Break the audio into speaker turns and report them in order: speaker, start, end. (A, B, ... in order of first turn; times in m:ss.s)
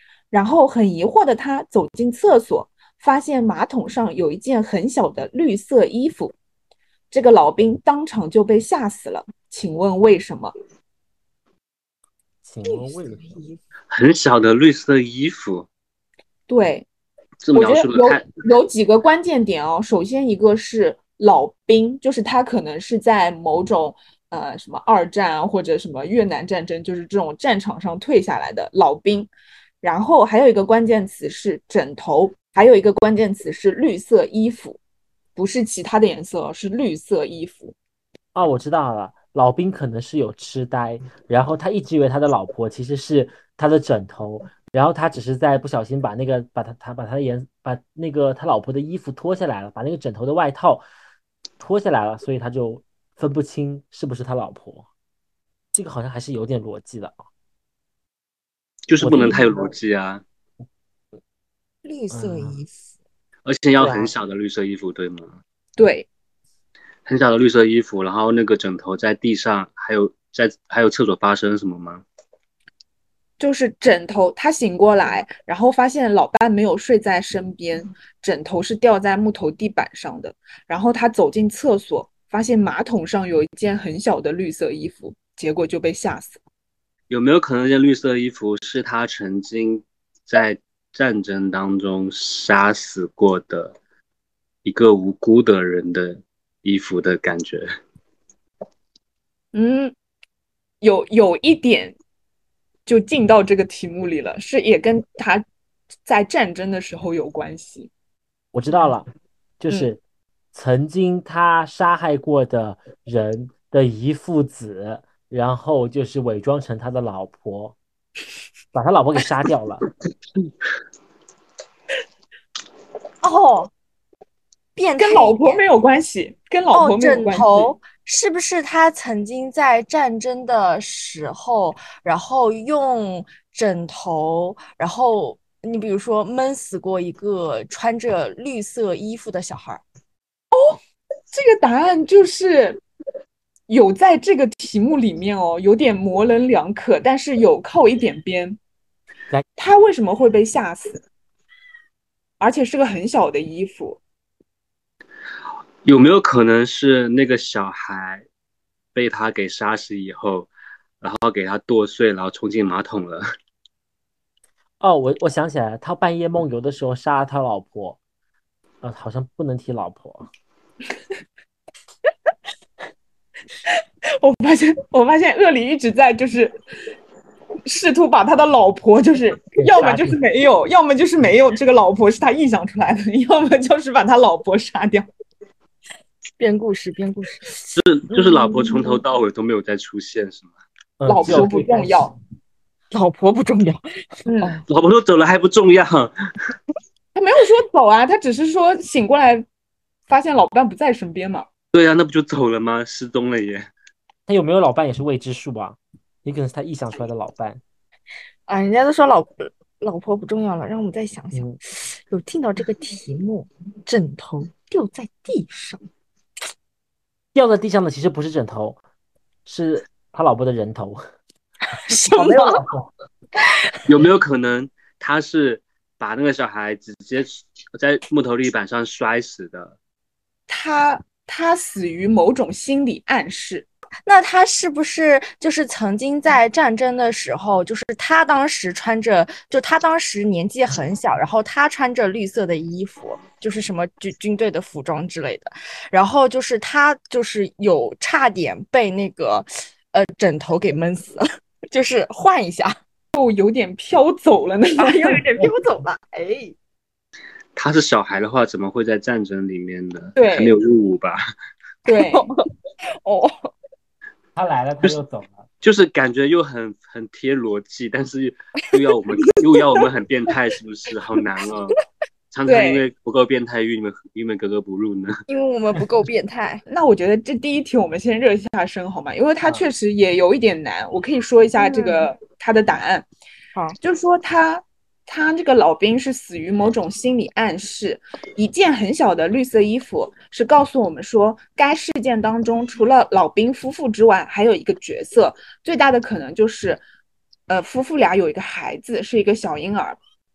0:00.3-0:06.4 A
0:07.1-0:10.5 A
0:12.4-0:13.3 B
0:12.6-0:13.6 C
0:13.9-0:15.7 D
0:16.5-0:16.9 A
0:17.4-0:18.3 D
0:17.5-0:29.3 A
0:29.8-0:34.8 A
0:35.4-0:37.8 A
0:38.3-0:50.8 B
0:51.6-0:54.9 B
0:55.7-0:57.2 B
0:58.9-1:00.2 D
0:59.0-0:59.7 B
1:01.8-1:02.9 C
1:02.1-1:02.6 B
1:03.4-1:05.4 D
1:03.8-1:04.1 B
1:05.8-1:06.1 A
1:07.1-1:12.0 D
1:13.4-1:26.4 A
1:27.1-1:33.8 D
1:34.6-1:37.7 D
1:39.5-1:39.9 A
1:40.8-1:42.0 A
1:42.9-1:45.4 A
1:46.1-1:47.9 A
1:48.5-1:49.1 B
1:49.6-1:50.0 B
1:50.5-1:57.8 B
1:58.7-1:59.9 B
2:03.2-2:03.7 C
2:04.8-2:05.6 C
2:05.0-2:07.7 A
2:06.7-2:19.8 C
2:20.5-2:20.8 A
2:21.3-2:22.8 A
2:23.7-2:28.6 A
2:29.6-2:31.0 A
2:32.4-2:34.0 A
2:35.8-2:38.2 D
2:39.0-2:40.5 D
2:41.0-2:43.2 D
2:44.8-2:48.0 B
2:48.8-2:50.3 B
2:54.2-2:56.6 A
2:57.6-3:05.1 A
2:59.6-3:00.2 B
3:06.4-3:09.0 C
3:07.7-3:10.5 D
3:11.0-3:12.1 B
3:11.1-3:12.2 A
3:12.9-3:13.8 C
3:14.3-3:14.6 A
3:14.7-3:16.1 D
3:17.2-3:19.4 A
3:20.1-3:21.5 A
3:21.7-3:23.7 D
3:24.3-3:27.6 B
3:28.5-3:35.8 C
3:37.3-3:38.8 B
3:39.5-3:41.0 B
3:41.9-3:42.7 C
3:42.1-3:42.9 B
3:43.4-3:43.7 C
3:43.9-3:49.8 D
3:50.5-3:53.7 A
3:54.1-4:12.8 C
4:13.1-4:15.2 A
4:14.8-4:16.6 C
4:17.6-4:21.2 D
4:20.2-4:20.6 A
4:21.9-4:22.3 A
4:21.9-4:22.5 C
4:23.0-4:23.5 C
4:24.4-4:25.5 B
4:25.6-4:31.8 D
4:32.3-4:35.2 D
4:32.5-4:32.8 A
4:35.3-4:36.6 C
4:36.7-4:43.1 A
4:41.6-4:42.1 C
4:43.8-4:56.8 A
4:57.5-5:00.0 A